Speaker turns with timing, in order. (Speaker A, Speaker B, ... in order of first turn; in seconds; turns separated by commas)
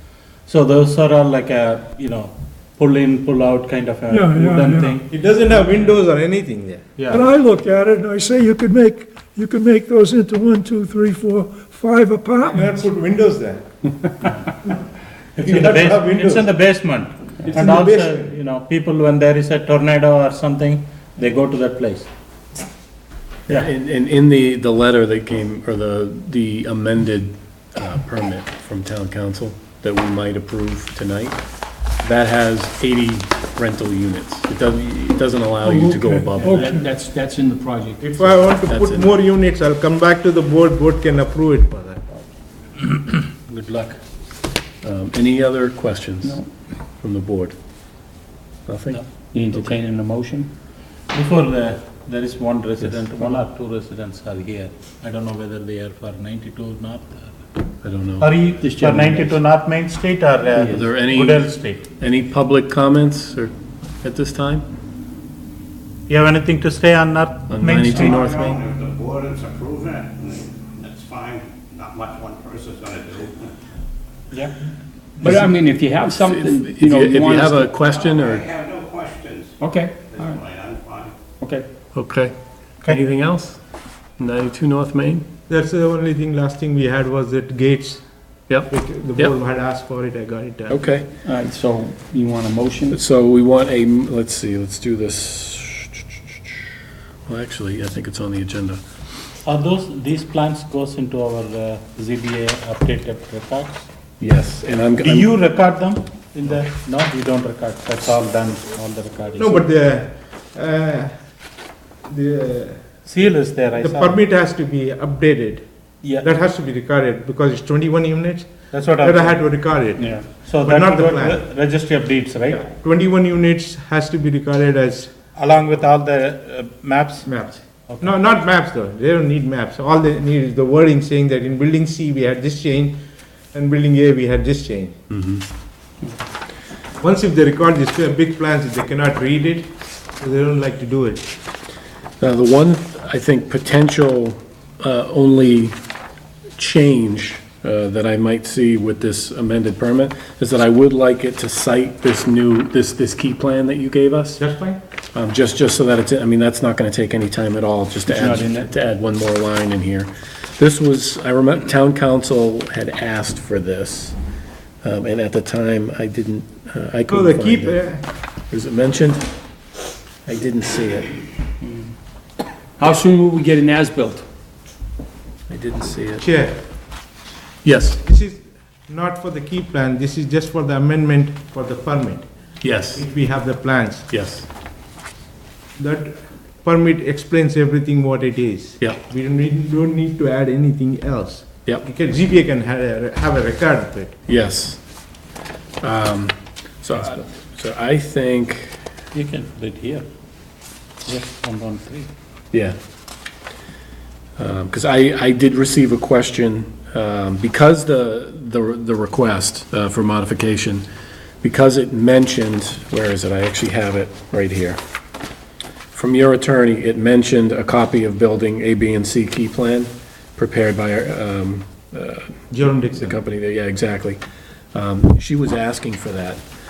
Speaker A: 0.5-5.2, Speaker B: 4.1-5.0, Speaker C: 5.1-7.0, Speaker A: 7.0-7.2, Speaker B: 7.1-12.8, Speaker C: 12.5-13.7, Speaker A: 15.4-22.1, Speaker C: 15.4-16.5, Speaker C: 17.4-18.3, Speaker D: 23.5-31.4, Speaker D: 32.0-36.8, Speaker B: 35.6-36.8, Speaker E: 36.5-38.2, Speaker C: 38.0-42.3, Speaker D: 38.6-39.2, Speaker A: 43.4-44.0, Speaker D: 44.8-46.4, Speaker D: 47.0-47.6, Speaker D: 48.7-49.8, Speaker E: 49.3-50.5, Speaker A: 51.1-57.4, Speaker D: 57.8-58.3, Speaker A: 58.2-61.9, Speaker E: 58.4-59.4, Speaker E: 60.6-60.8, Speaker D: 60.6-64.7, Speaker A: 66.1-68.6, Speaker D: 67.5-68.6, Speaker F: 68.1-73.4, Speaker E: 75.2-77.8, Speaker D: 76.2-78.5, Speaker F: 78.3-79.5, Speaker E: 79.6-80.4, Speaker F: 80.2-81.1, Speaker E: 81.3-81.7, Speaker D: 81.9-83.6, Speaker D: 84.2-85.2, Speaker C: 85.5-88.1, Speaker D: 88.5-89.3, Speaker C: 88.7-90.8, Speaker D: 90.7-91.1, Speaker E: 91.2-93.0, Speaker D: 92.9-96.6, Speaker D: 97.3-98.8, Speaker A: 99.5-103.9, Speaker D: 104.2-105.3, Speaker A: 105.0-109.7, Speaker C: 109.4-113.2, Speaker A: 113.0-114.2, Speaker C: 113.8-121.6, Speaker A: 118.7-122.6, Speaker E: 120.0-120.3, Speaker C: 122.5-125.2, Speaker A: 125.3-128.1, Speaker C: 127.2-135.0, Speaker D: 135.1-135.5, Speaker C: 137.0-141.3, Speaker D: 142.2-145.8, Speaker D: 146.6-154.4, Speaker C: 154.4-154.8, Speaker D: 155.1-164.2, Speaker E: 158.1-158.7, Speaker D: 164.8-169.3, Speaker C: 167.1-168.0, Speaker D: 170.2-171.2, Speaker E: 171.6-171.9, Speaker E: 172.8-174.2, Speaker D: 175.5-176.3, Speaker C: 176.2-176.6, Speaker D: 177.6-178.0, Speaker C: 178.0-184.1, Speaker D: 182.6-183.1, Speaker D: 184.1-184.5, Speaker C: 185.8-194.1, Speaker D: 194.3-194.8, Speaker D: 195.8-198.8, Speaker A: 199.1-200.1, Speaker A: 201.1-202.1, Speaker D: 204.4-210.8, Speaker D: 211.4-214.8, Speaker D: 215.9-224.2, Speaker C: 222.5-223.2, Speaker D: 224.7-226.4